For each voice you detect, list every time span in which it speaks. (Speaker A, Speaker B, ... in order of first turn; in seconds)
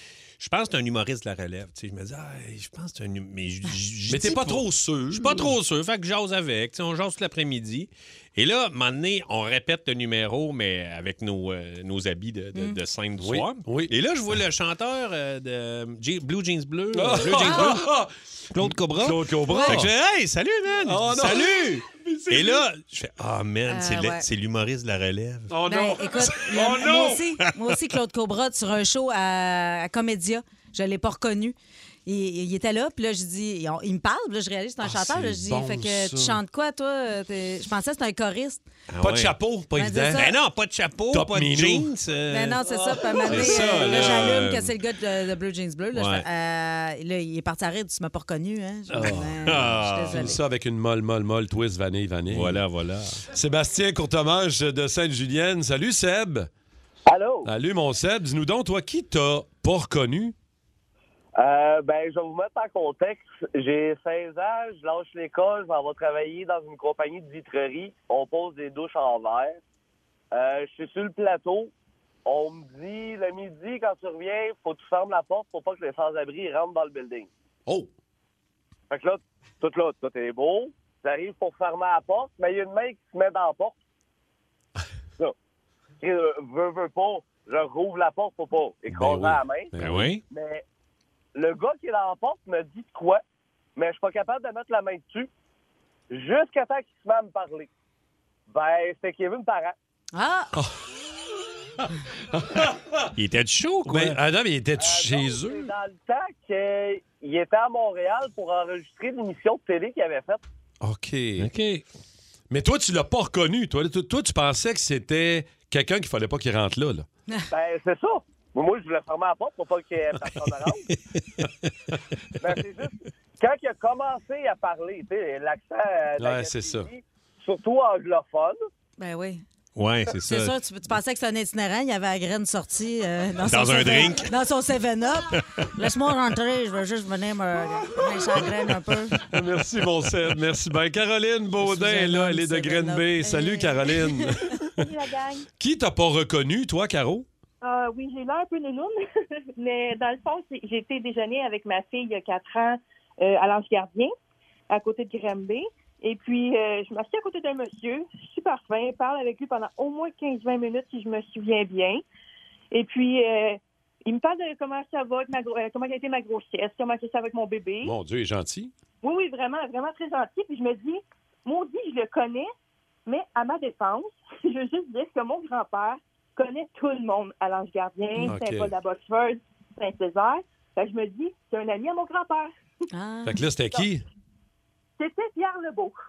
Speaker A: 0.4-17.8, 18.5-25.5, 38.9-39.3, 40.1-44.7, 45.9-46.2, 49.5-50.4, 52.3-53.2, 89.8-90.2, 103.2-104.2, 111.4-111.8, 129.8-130.6, 133.4-134.3, 135.3-135.7
Speaker B: 4.1-5.5, 13.2-13.9, 16.9-19.9, 20.8-22.6, 25.5-27.2, 34.8-36.4, 39.0-40.3, 41.1-41.9, 42.7-44.4, 48.9-52.6, 53.3-56.5, 57.4-60.3, 88.9-90.1, 100.5-100.8, 101.8-103.1, 103.9-105.7, 110.8-111.5, 112.5-117.0, 126.2-126.9, 139.3-144.9, 145.6-147.3, 167.8-168.7, 178.2-178.7, 183.2-184.0
Speaker C: 17.4-17.7, 19.5-19.8, 23.7-24.2, 25.7-31.5, 32.0-38.6, 39.8-40.3, 42.3-50.4, 100.1-100.5, 129.0-129.4, 130.2-139.2, 141.6-144.6, 182.9-183.4
Speaker D: 57.1-57.5, 61.4-69.6, 70.3-71.7, 72.2-77.3, 78.9-83.8, 86.0-89.7, 90.3-90.6, 91.3-93.2, 93.8-95.3, 96.1-97.7, 98.5-99.7, 104.8-110.4, 117.5-120.9, 122.4-128.6
Speaker E: 144.8-145.4, 147.6-149.0, 149.6-154.1, 154.7-162.0, 162.7-167.9, 169.0-172.5, 173.1-182.5, 185.0-186.0